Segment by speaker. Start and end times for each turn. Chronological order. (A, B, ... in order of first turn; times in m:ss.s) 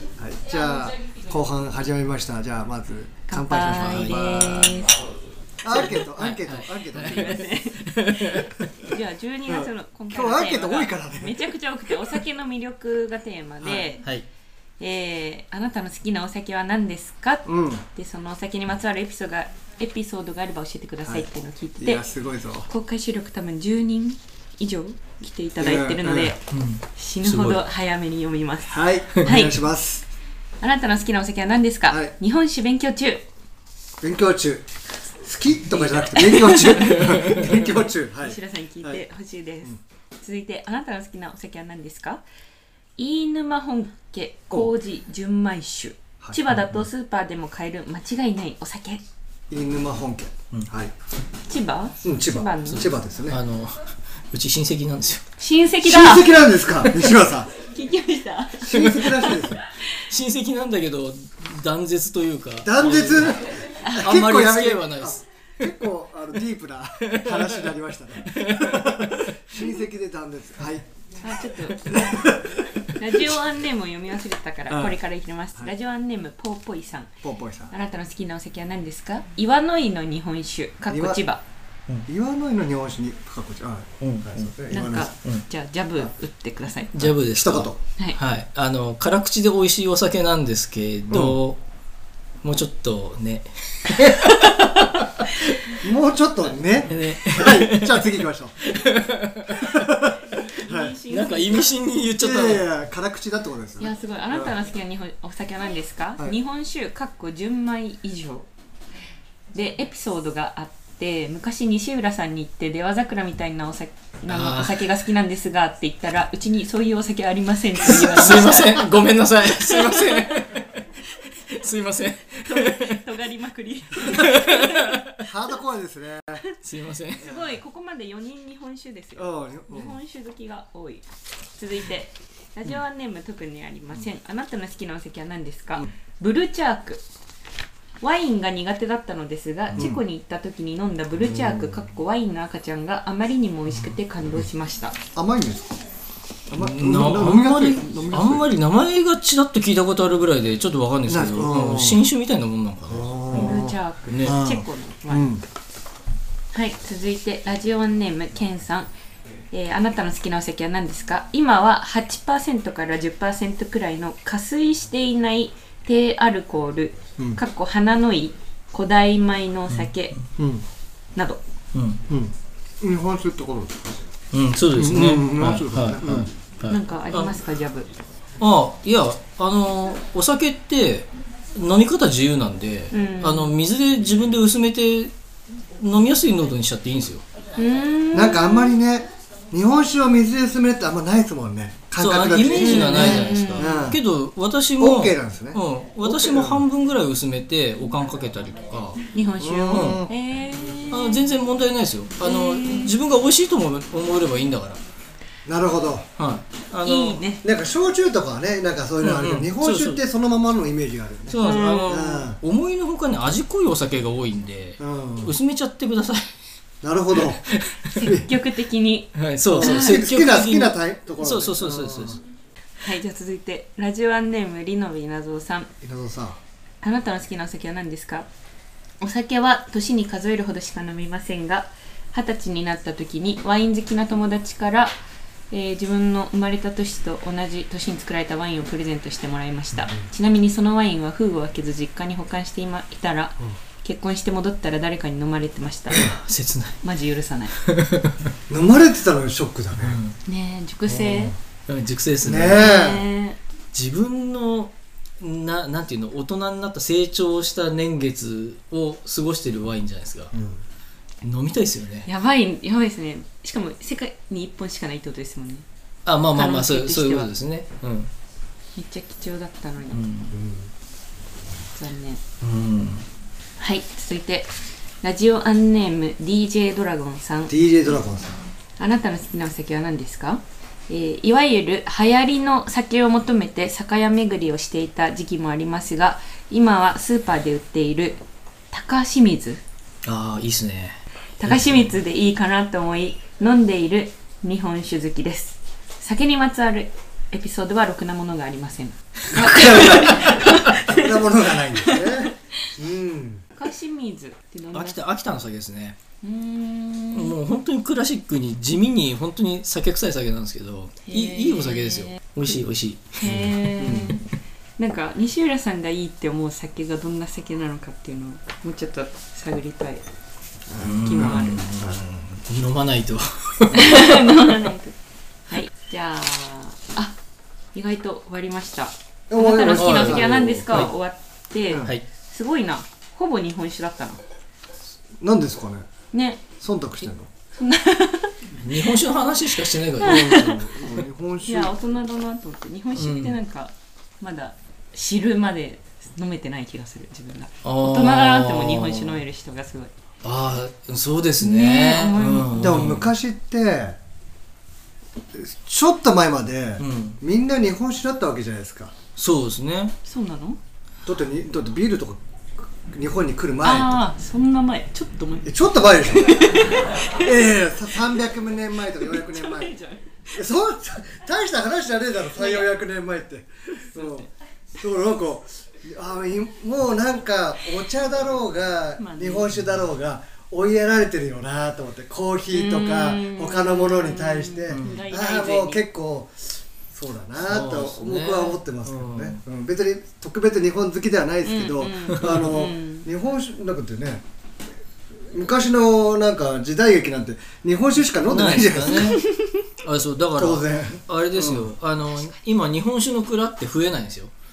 0:00.2-0:04.7 A
0:03.3-0:05.0 B
0:03.6-0:04.8 C
0:05.6-0:07.4 A
0:06.0-0:08.7 C
0:06.9-0:14.1 B
0:09.5-0:11.5 A
0:14.8-0:22.0 B
0:17.4-0:17.8 A
0:21.8-0:22.7 A
0:22.7-0:26.4 B
0:25.6-0:26.3 A
0:26.5-0:27.6 C
0:26.9-0:29.6 B
0:28.7-0:30.1 A
0:30.6-0:33.2 B
0:31.9-0:32.1 A
0:34.0-0:34.6 A
0:35.2-0:39.0 A
0:35.7-0:42.2 B
0:36.5-0:37.5 C
0:43.0-0:49.0 B
0:49.5-0:50.9 A
0:51.5-0:52.9 B
0:52.0-0:53.4 A
0:52.7-0:55.2 C
0:55.4-0:56.3 B
0:55.8-0:57.5 A
0:57.6-0:59.2 B
0:58.6-0:59.6 A
0:58.7-0:59.4 C
1:00.1-1:05.2 C
1:02.6-1:10.9 A
1:07.0-1:07.7 C
1:08.2-1:09.4 C
1:11.2-1:12.4 B
1:12.0-1:12.4 A
1:12.9-1:17.1 B
1:17.2-1:17.7 A
1:17.7-1:21.4 B
1:20.9-1:21.2 A
1:22.1-1:25.1 A
1:24.0-1:24.5 C
1:24.7-1:26.9 B
1:27.0-1:31.6 C
1:27.0-1:27.8 A
1:31.1-1:31.4 A
1:32.4-1:35.6 C
1:35.8-1:38.6 A
1:36.9-1:39.9 C
1:39.6-1:41.0 A
1:40.4-1:41.7 B
1:41.1-1:42.7 C
1:42.2-1:44.5 A
1:43.8-1:48.5 B
1:49.5-1:58.9 B
1:54.3-1:54.8 C
1:57.8-2:03.0 C
1:59.6-2:00.3 B
2:02.4-2:05.0 B
2:04.0-2:05.2 C
2:05.2-2:06.4 A
2:06.6-2:07.3 C
2:07.2-2:17.0 B
2:09.2-2:10.0 A
2:18.0-2:25.0 B
2:19.7-2:20.0 A
2:21.2-2:21.8 A
2:25.2-2:25.8 A
2:26.5-2:28.5 A
2:26.6-2:34.4 C
2:31.1-2:32.0 A
2:32.9-2:35.4 A
2:33.3-2:35.3 B
2:36.5-2:38.9 B
2:39.5-2:50.2 B
2:50.4-2:50.6 A
2:51.7-2:52.0 C
2:52.1-2:54.0 A
2:54.3-2:57.4 C
2:54.8-2:56.3 A
2:56.7-2:57.9 B
2:58.4-3:05.1 C
3:02.9-3:03.5 B
3:05.8-3:07.2 C
3:07.6-3:08.8 B
3:08.1-3:14.0 A
3:12.0-3:19.0 C
3:12.6-3:13.8 B
3:14.8-3:16.6 A
3:19.1-3:21.2 B
3:19.4-3:20.1 A
3:19.7-3:20.0 C
3:20.9-3:24.8 C
3:22.2-3:22.9 B
3:25.5-3:26.1 A
3:26.2-3:27.2 C
3:26.8-3:27.4 B
3:27.4-3:32.4 A
3:29.0-3:30.0 C
3:31.3-3:36.3 C
3:31.4-3:32.0 B
3:34.8-3:35.3 A
3:36.8-3:37.4 A
3:37.2-3:38.0 C
3:37.9-3:40.0 B
3:38.0-3:38.3 A
3:39.2-3:42.2 C
3:39.5-3:42.2 A
3:42.8-3:45.7 B
3:45.8-3:46.4 A
3:46.8-3:48.3 B
3:49.0-3:54.9 B
3:55.5-4:06.2 B
4:05.9-4:06.8 C
4:06.8-4:07.6 B
4:07.6-4:08.3 C
4:08.5-4:10.0 A
4:09.8-4:10.2 C
4:10.3-4:11.3 B
4:11.7-4:12.7 C
4:12.2-4:13.0 A
4:12.6-4:13.4 B
4:13.7-4:20.3 C
4:20.3-4:20.6 A
4:21.2-4:22.1 C
4:22.1-4:25.7 B
4:26.1-4:28.1 C
4:26.3-4:27.3 B
4:28.8-4:30.0 B
4:29.9-4:30.4 C
4:30.3-4:30.7 A
4:31.7-4:32.2 B
4:32.4-4:33.0 C
4:33.6-4:34.5 B
4:35.0-4:37.6 B
4:37.5-4:38.4 A
4:38.8-4:49.6 B
4:50.0-4:51.9 C
4:51.4-5:01.2 B
4:59.3-5:03.4 A
5:01.8-5:02.3 B
5:03.6-5:05.0 B
5:04.7-5:06.0 C
5:06.2-5:07.4 B
5:07.1-5:14.1 C
5:11.1-5:12.2 B
5:13.2-5:14.3 B
5:13.3-5:14.1 A
5:14.8-5:20.0 B
5:20.7-5:22.0 A
5:20.8-5:24.6 C
5:20.9-5:21.6 B
5:23.7-5:25.0 B
5:25.5-5:27.2 B
5:27.7-5:34.2 B
5:29.3-5:30.9 A
5:29.7-5:30.9 C
5:35.2-5:35.9 A
5:36.1-5:36.5 B
5:36.6-5:37.3 A
5:37.6-5:38.4 B
5:38.6-5:40.4 C
5:40.0-5:40.6 B
5:40.0-5:41.7 A
5:41.5-5:49.9 B
5:43.0-5:43.4 C
5:47.6-5:49.2 C
5:50.2-5:53.1 C
5:51.4-5:52.9 B
5:52.6-5:54.0 A
5:55.3-5:59.0 A
5:56.8-5:57.2 C
5:59.2-6:00.0 C
6:00.0-6:00.6 B
6:01.0-6:04.0 A
6:03.6-6:05.6 B
6:05.5-6:09.7 A
6:06.1-6:07.3 B
6:09.0-6:10.1 B
6:10.3-6:34.2 A
6:12.4-6:12.7 B
6:13.7-6:14.3 B
6:19.0-6:19.5 B
6:22.5-6:25.8 B
6:27.4-6:29.4 C
6:31.4-6:33.1 B
6:35.3-6:39.2 A
6:38.1-6:39.2 C
6:39.2-6:39.5 B
6:39.8-6:44.3 C
6:40.4-6:41.7 A